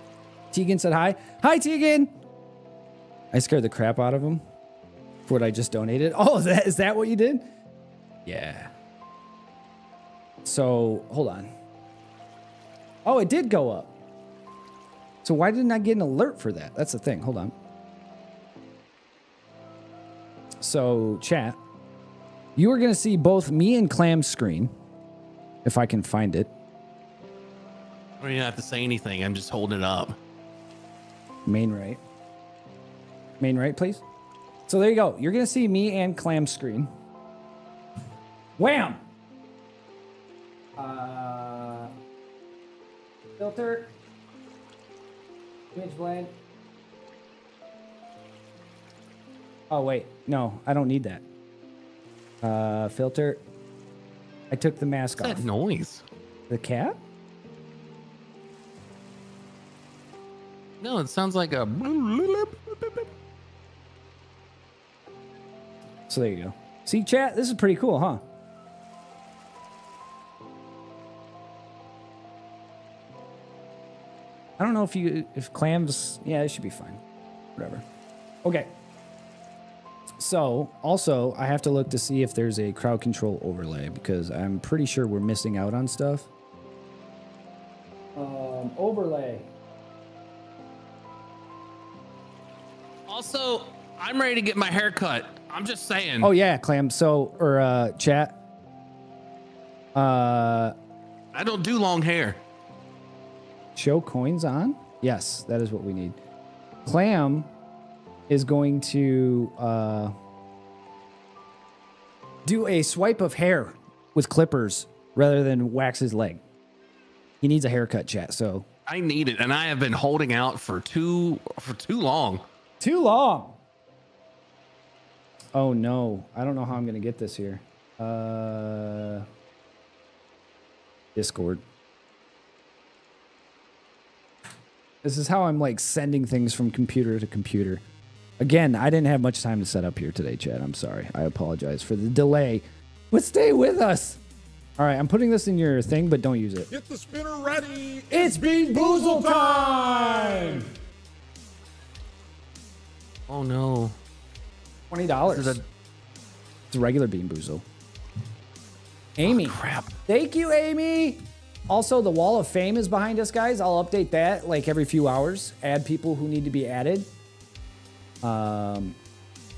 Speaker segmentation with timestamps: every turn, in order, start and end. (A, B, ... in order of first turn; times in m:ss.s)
0:00.5-0:02.1 A
0:03.3-0:04.4 A
0:05.3-0:07.5 A
0:08.2-0:08.7 A
0:10.4-0:11.5 A
0:13.0-0:13.9 A
0:15.2-0:17.5 A
0:20.6-0:21.6 A
0:22.6-0:24.7 A
0:25.6-0:26.5 A
0:28.2-0:30.2 B
0:31.4-0:32.0 A
0:33.4-0:34.0 A
0:34.7-0:36.9 A
0:38.6-0:39.0 A
0:40.8-0:41.9 A
0:43.4-0:43.9 A
0:45.7-0:46.3 A
0:49.7-0:51.2 A
0:52.4-0:53.4 A
0:54.5-0:55.4 A
0:55.2-0:56.0 B
0:56.5-0:57.0 A
1:00.8-1:03.1 B
1:06.1-1:08.2 A
1:14.6-1:17.0 A
1:17.6-1:17.8 A
1:18.4-1:18.7 A
1:20.2-1:26.3 A
1:28.1-1:29.5 A
1:33.1-1:36.3 B
1:36.2-1:38.4 A
1:39.9-1:40.7 A
1:41.3-1:42.4 B
1:43.8-1:46.2 A
1:46.8-1:47.5 A
1:48.3-1:50.1 A
1:52.4-1:56.4 A
1:57.4-1:58.7 A
1:58.9-2:02.4 B
2:02.8-2:03.6 A
2:05.5-2:09.3 A
2:11.1-2:11.6 A
2:15.0-2:17.8 A
2:18.4-2:24.2 A
2:24.8-2:26.7 A
2:26.7-2:30.7 C
2:28.1-2:30.6 A
2:33.3-2:33.9 B
2:34.9-2:35.6 A
2:35.2-2:35.6 B
2:36.7-2:37.6 A
2:39.2-2:47.1 A
2:39.2-2:39.9 B
2:48.2-2:49.0 A